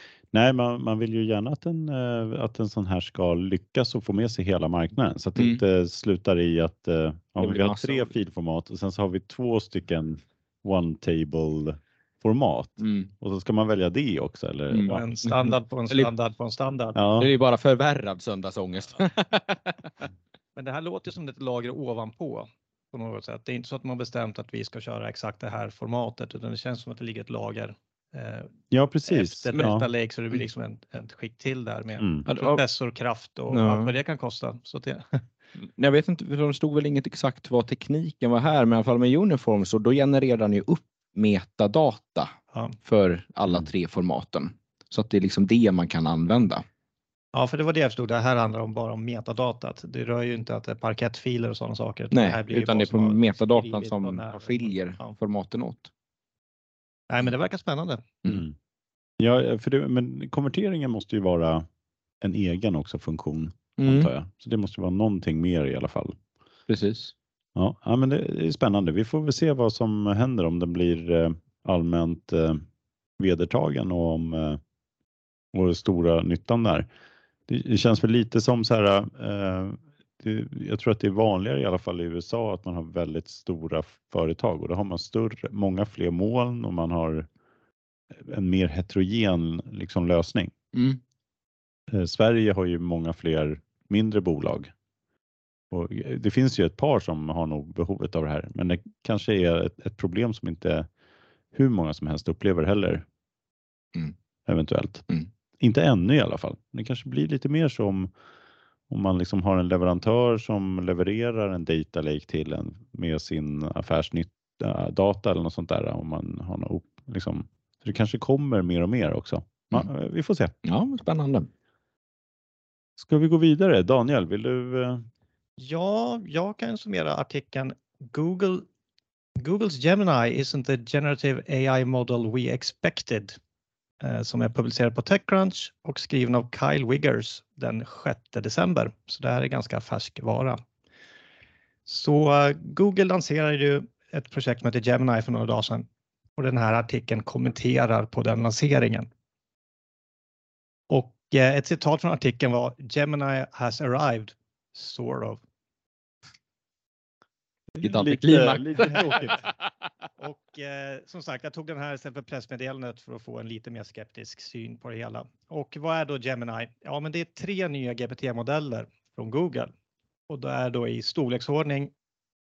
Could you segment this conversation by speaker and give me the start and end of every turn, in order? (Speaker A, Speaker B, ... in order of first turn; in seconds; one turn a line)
Speaker A: 0.3-15.0
Speaker B: 7.4-8.1
Speaker B: 12.8-13.1
Speaker B: 14.7-16.1
Speaker C: 14.9-17.0
Speaker A: 16.9-17.3
Speaker B: 17.2-19.9
Speaker C: 20.6-28.5
Speaker A: 28.7-29.9
Speaker C: 29.1-35.2
Speaker A: 32.0-32.3
Speaker B: 32.3-32.6
Speaker B: 33.5-33.9
Speaker B: 35.6-42.3
Speaker B: 42.9-46.6
Speaker C: 47.3-55.1
Speaker B: 52.1-55.9
Speaker C: 57.1-58.0
Speaker A: 58.3-58.5
Speaker A: 59.2-61.7
Speaker A: 62.2-66.2
Speaker B: 63.8-64.1
Speaker B: 66.7-67.1
Speaker A: 67.6-72.6
Speaker A: 73.2-74.6
Speaker A: 75.5-76.9
Speaker A: 77.5-87.3
Speaker A: 88.1-90.5
Speaker B: 90.7-91.0
Speaker A: 91.9-94.7
Speaker A: 95.7-100.9
Speaker A: 101.5-103.0
Speaker A: 104.5-105.0
Speaker A: 105.6-108.1
Speaker A: 108.9-120.5
Speaker B: 120.7-121.5
Speaker A: 123.0-125.1
Speaker C: 125.6-128.7
Speaker C: 129.4-133.4
Speaker C: 134.0-140.6
Speaker C: 141.9-149.1
Speaker C: 150.9-155.4
Speaker A: 157.7-159.4
Speaker B: 157.8-159.4
Speaker C: 160.2-169.7
Speaker C: 170.3-171.9